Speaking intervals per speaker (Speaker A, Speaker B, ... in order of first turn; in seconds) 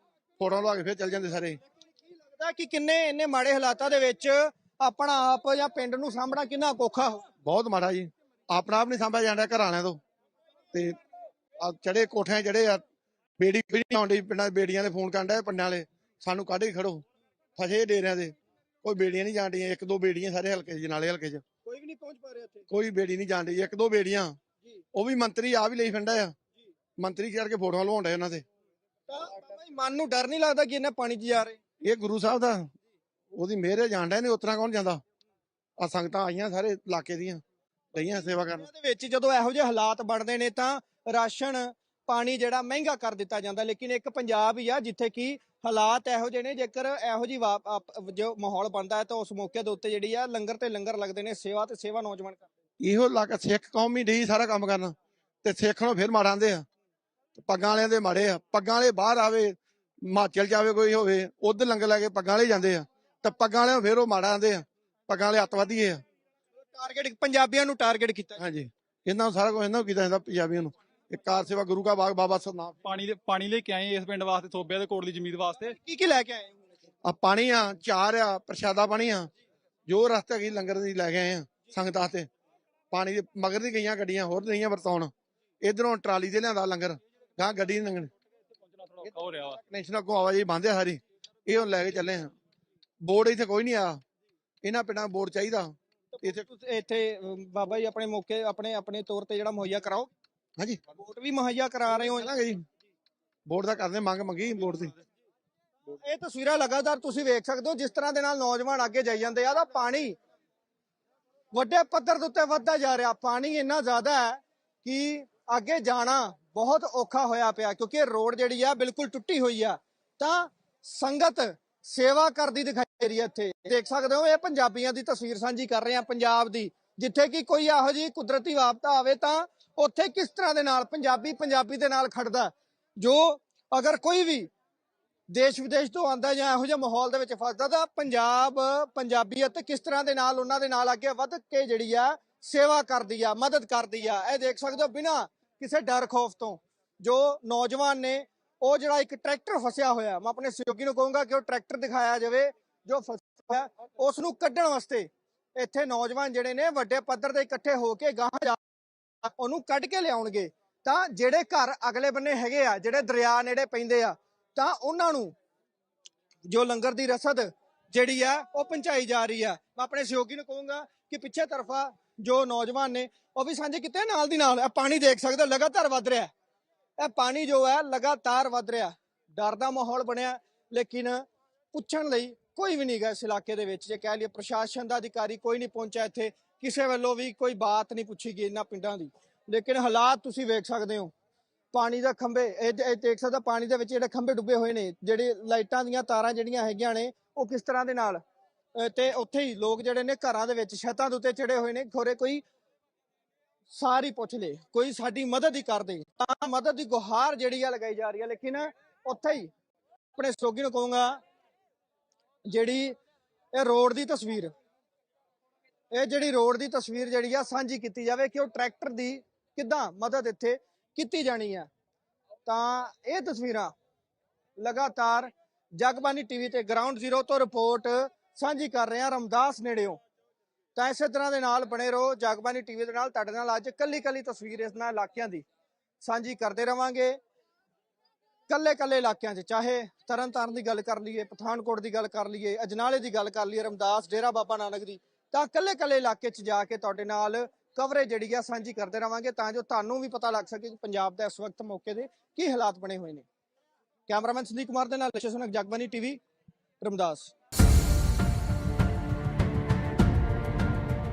Speaker A: 0.4-1.6, 7.4-10.0, 10.7-11.0, 11.6-12.8, 13.4-17.0, 17.6-21.4, 22.7-24.4, 24.9-26.3, 27.0-28.4, 31.8-32.7, 33.3-35.0, 35.8-37.4, 37.9-38.6, 52.8-56.6, 57.3-66.0, 68.4-72.8, 77.0-79.3, 79.9-82.3, 82.9-85.1, 85.6-88.1, 89.6-92.3, 93.0-94.0, 94.6-96.4, 102.2-102.7, 103.5-104.9
Speaker B: 2.3-7.3, 21.6-22.7, 29.1-31.6, 38.0-52.5, 66.7-68.4, 75.6-76.6, 96.1-100.1, 100.9-102.3, 105.9-110.2, 111.5-134.5, 135.3-158.6, 159.2-165.3, 166.5-176.3, 177.0-191.1, 191.7-198.2, 198.7-202.4, 203.7-209.5, 210.1-211.2, 212.4-213.0, 213.5-214.5, 215.9-221.7, 222.4-223.7, 224.6-230.0, 230.7-235.4, 236.0-237.2, 238.5-253.2, 254.1-256.2, 256.8-257.3
Speaker C: 72.8-75.8, 88.7-89.6